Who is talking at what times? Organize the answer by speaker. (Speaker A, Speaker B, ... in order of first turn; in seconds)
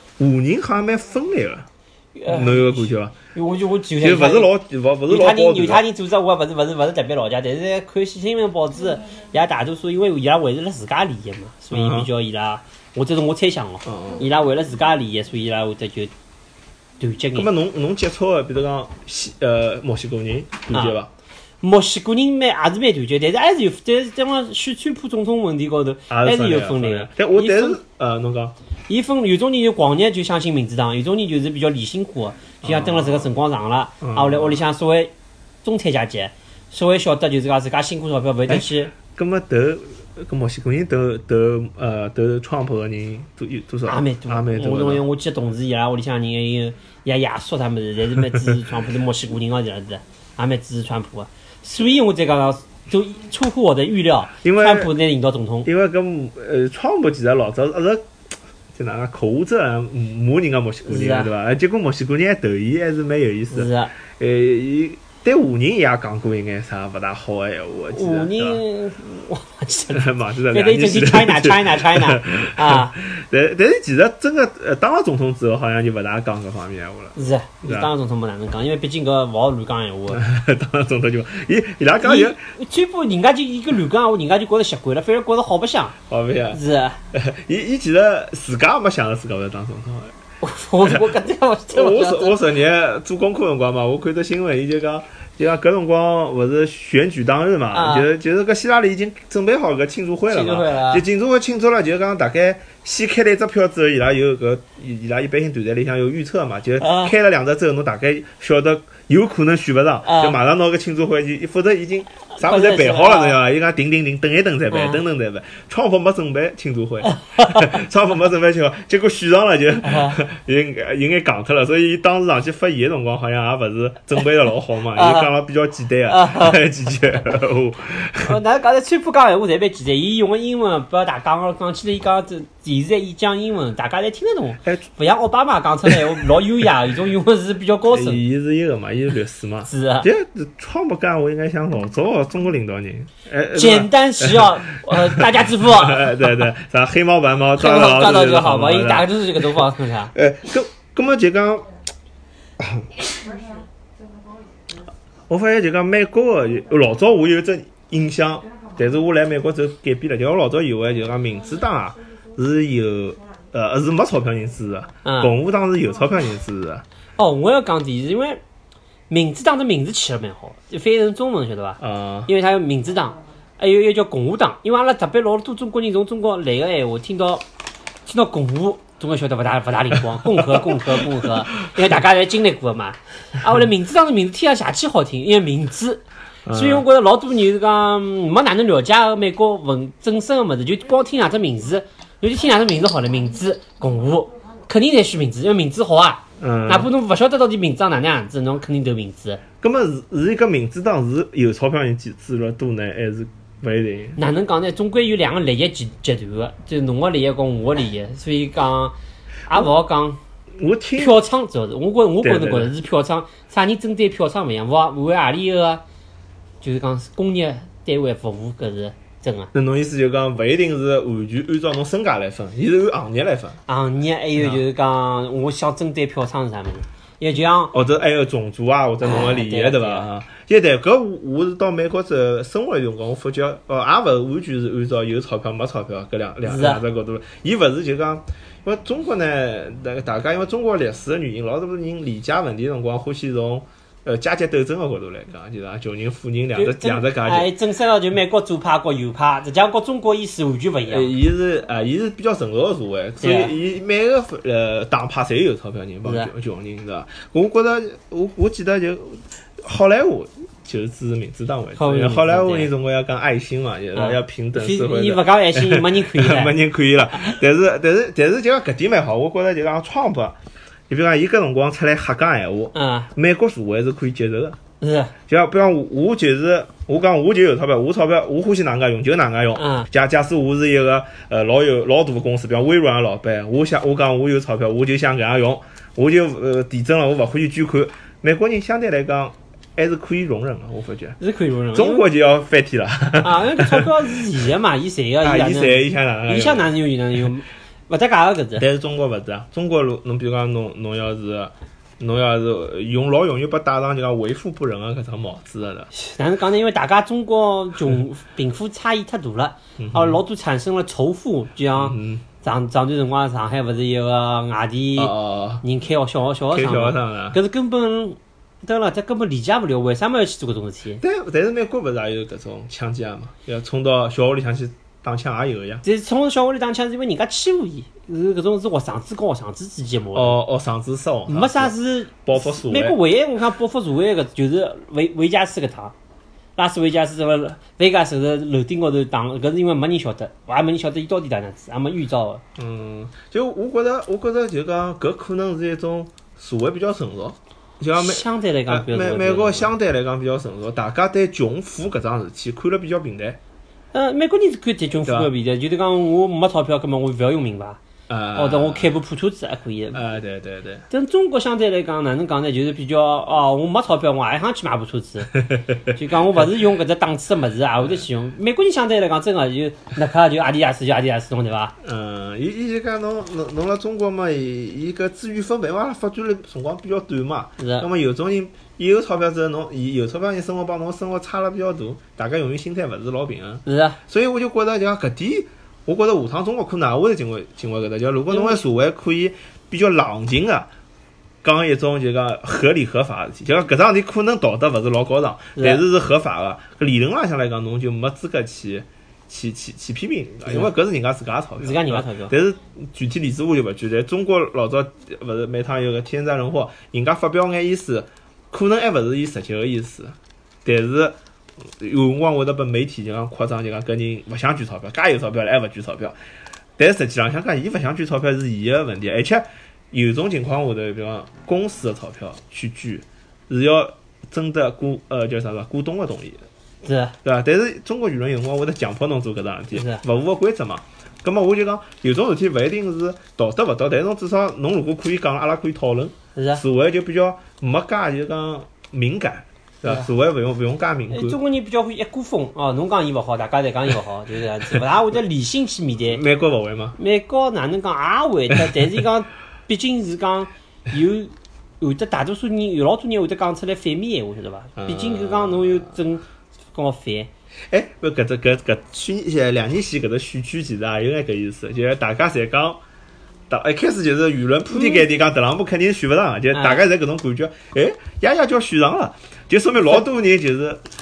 Speaker A: 0.2-1.7, 2.3-3.1, 4.0-5.8, 11.7-12.1, 13.8-14.2, 17.3-21.1, 26.1-28.5, 32.6-33.3, 34.0-34.6, 38.5-45.0, 54.4-54.9, 55.6-58.0, 58.7-68.6, 69.9-77.9, 80.1-82.4, 86.1-86.6, 87.1-90.1, 91.7-128.4, 135.8-136.2, 137.9-151.7, 152.6-152.9, 155.3-166.8, 171.8-172.3, 180.2-181.8, 186.4-186.8, 196.4-196.9, 199.6-204.2, 210.6-211.2, 212.2-212.7, 219.5-223.6, 224.4-224.6, 227.7-247.5, 250.8-270.4, 270.9-274.6, 275.3-291.2, 291.7-294.2, 295.2-296.8, 298.6-305.9, 309.8-310.2, 311.7-312.2, 315.0-315.6, 316.5-317.4, 321.0-325.8, 330.1-331.7, 332.2-333.0, 342.6-353.4, 355.0-355.3, 358.1-358.9, 359.9-360.8, 371.8-390.7, 391.4-416.1, 416.8-426.4, 427.2-441.4, 446.0-446.9, 454.8-456.0, 457.7-462.8, 463.5-470.8
Speaker B: 2.1-4.5, 5.1-16.1, 17.0-17.5, 20.7-21.0, 21.6-27.8, 28.9-35.1, 35.6-38.9, 43.9-55.7, 60.9-61.3, 63.5-63.9, 67.9-72.9, 77.1-80.2, 82.0-86.0, 86.5-87.0, 90.4-92.4, 97.7-98.1, 100.3-101.0, 106.8-107.1, 110.0-110.4, 112.3-113.4, 114.7-115.0, 117.0-117.7, 119.8-120.2, 124.9-125.3, 126.1-126.6, 128.2-138.2, 139.7-140.1, 143.5-146.5, 147.5-150.1, 165.0-165.3, 167.2-168.4, 169.1-177.4, 178.1-199.4, 204.2-208.9, 209.5-210.2, 211.0-215.8, 216.6-219.5, 223.7-227.7, 229.0-230.1, 236.4-236.8, 246.5-251.1, 253.2-253.6, 256.0-256.3, 261.8-262.7, 263.9-266.6, 272.7-273.1, 274.8-275.1, 279.6-279.9, 291.2-292.1, 293.2-298.6, 305.9-321.0, 325.8-330.4, 331.3-335.9, 336.6-342.4, 347.9-349.7, 353.9-357.8, 358.3-360.0, 360.9-371.7, 377.6-377.9, 383.6-384.0, 388.3-388.6, 395.6-395.8, 401.6-402.3, 426.8-427.1, 429.7-430.0, 436.3-436.6, 441.1-446.2, 446.9-457.3, 464.7-465.1, 466.5-466.8